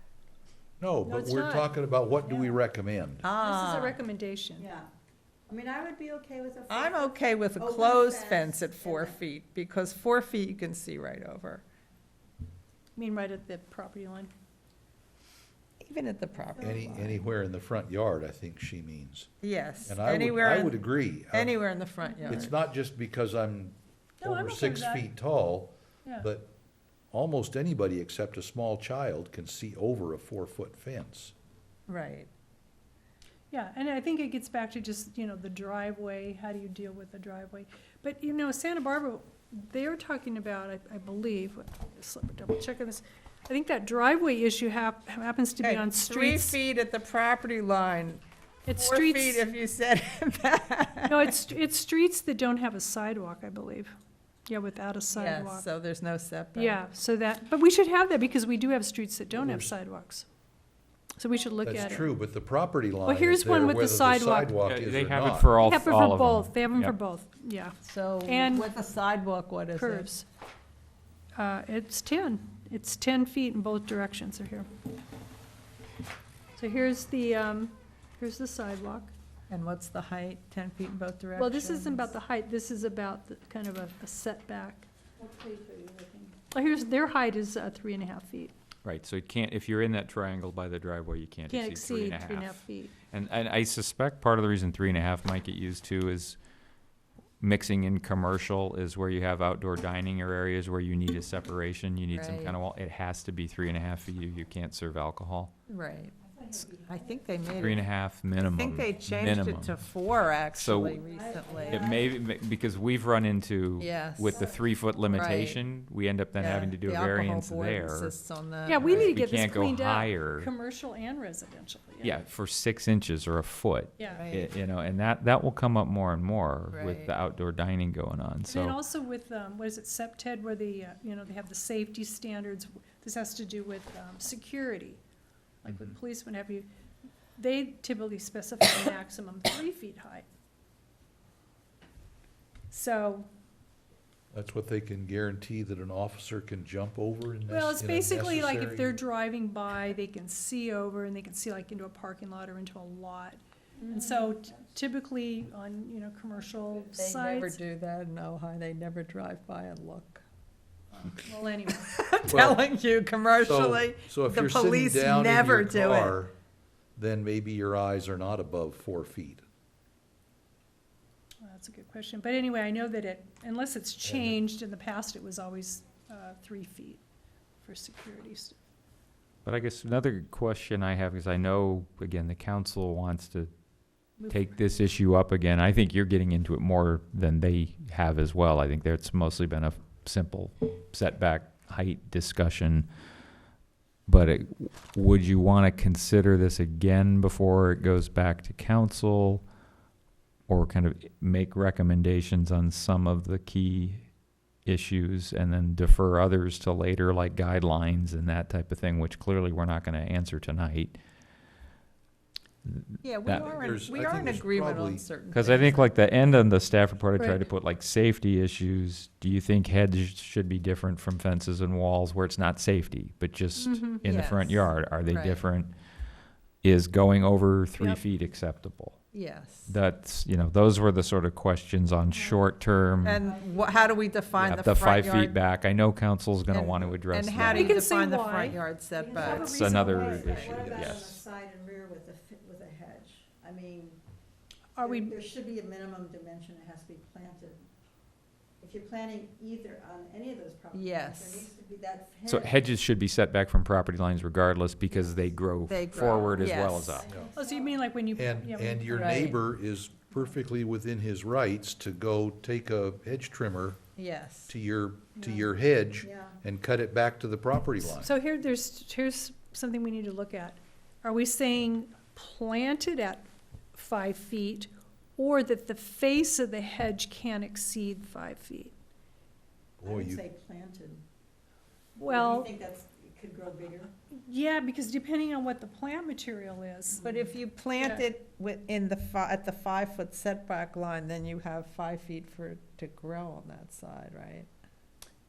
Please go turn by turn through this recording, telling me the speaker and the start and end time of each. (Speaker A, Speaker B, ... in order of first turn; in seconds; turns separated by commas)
Speaker A: 0.8-3.2, Speaker B: 1.0-1.8, Speaker C: 2.2-2.6, Speaker D: 3.2-4.0, Speaker B: 3.3-4.7, Speaker C: 4.6-4.8, Speaker C: 5.5-9.2, Speaker D: 6.7-11.6, Speaker B: 12.9-14.3, Speaker D: 15.8-17.2, Speaker C: 16.5-17.1, Speaker A: 16.6-19.3, Speaker D: 19.4-20.8, Speaker A: 19.9-21.6, Speaker D: 21.3-22.5, Speaker B: 22.0-22.5, Speaker A: 22.3-26.5, Speaker B: 24.2-25.1, Speaker A: 27.1-31.3, Speaker D: 31.9-32.3, Speaker B: 33.5-46.6, Speaker D: 45.6-48.2, Speaker B: 48.7-49.5, Speaker D: 48.8-51.4, Speaker B: 51.0-53.9, Speaker B: 54.5-55.7, Speaker D: 55.1-56.8, Speaker B: 56.5-60.2, Speaker A: 59.4-59.7, Speaker B: 61.2-62.1, Speaker A: 61.6-65.5, Speaker B: 63.0-64.6, Speaker E: 64.6-66.9, Speaker B: 65.6-67.7, Speaker D: 67.8-70.1, Speaker B: 68.2-68.7, Speaker B: 69.7-70.2, Speaker B: 71.3-74.7, Speaker B: 76.5-79.1, Speaker D: 79.5-82.1, Speaker B: 81.3-84.9, Speaker D: 85.8-86.3, Speaker B: 86.5-88.5, Speaker E: 88.8-96.4, Speaker B: 91.5-92.9, Speaker E: 97.4-105.5, Speaker D: 102.1-102.6, Speaker D: 105.7-107.8, Speaker C: 106.2-107.8, Speaker E: 107.5-109.8, Speaker D: 108.4-111.9, Speaker E: 110.5-111.0, Speaker C: 111.0-112.1, Speaker E: 111.7-118.1, Speaker D: 113.8-114.5, Speaker C: 114.3-114.7, Speaker D: 115.1-115.6, Speaker D: 116.3-119.2, Speaker B: 118.7-122.2, Speaker E: 118.8-120.5, Speaker E: 122.0-128.8, Speaker B: 124.0-124.3, Speaker D: 124.1-124.5, Speaker D: 126.7-127.1, Speaker B: 128.5-135.0, Speaker B: 135.6-136.7, Speaker E: 135.7-135.9, Speaker B: 137.4-140.2, Speaker B: 142.7-143.3, Speaker A: 144.3-149.0, Speaker B: 147.5-157.6, Speaker D: 153.8-154.3, Speaker D: 156.9-160.2, Speaker B: 161.2-161.9, Speaker D: 161.8-166.2, Speaker A: 162.3-162.6, Speaker A: 163.4-166.3, Speaker A: 166.9-169.4, Speaker B: 171.4-177.0, Speaker A: 174.0-174.3, Speaker B: 177.6-178.6, Speaker E: 179.4-183.5, Speaker B: 184.2-184.7, Speaker E: 184.3-192.9, Speaker E: 194.1-199.4, Speaker E: 200.5-204.0, Speaker E: 204.7-211.0, Speaker E: 212.6-213.5, Speaker D: 213.0-215.9, Speaker A: 213.3-215.1, Speaker E: 215.3-225.7, Speaker B: 217.2-217.4, Speaker B: 223.6-224.0, Speaker D: 224.0-225.4, Speaker E: 226.6-229.0, Speaker D: 229.1-229.7, Speaker E: 229.7-233.2, Speaker B: 232.1-232.6, Speaker D: 233.0-235.4, Speaker C: 233.2-234.7, Speaker E: 234.4-237.8, Speaker D: 236.5-240.8, Speaker B: 237.4-240.4, Speaker C: 239.0-244.0, Speaker E: 239.4-241.2, Speaker B: 244.7-245.1, Speaker C: 244.8-247.6, Speaker C: 248.6-252.7, Speaker D: 250.7-251.5, Speaker E: 252.2-257.1, Speaker D: 255.7-257.1, Speaker A: 255.9-256.3, Speaker C: 256.0-257.8, Speaker A: 257.1-257.3, Speaker B: 257.3-259.4, Speaker A: 258.1-263.8, Speaker D: 258.9-259.4, Speaker D: 264.0-264.5, Speaker A: 264.5-268.1, Speaker C: 266.0-266.4, Speaker B: 267.8-278.7, Speaker A: 279.8-280.2, Speaker C: 279.9-281.0, Speaker B: 282.0-282.5, Speaker D: 282.1-283.9, Speaker C: 283.2-283.7, Speaker B: 284.1-287.1, Speaker C: 286.9-287.2, Speaker D: 286.9-294.5, Speaker B: 287.8-288.1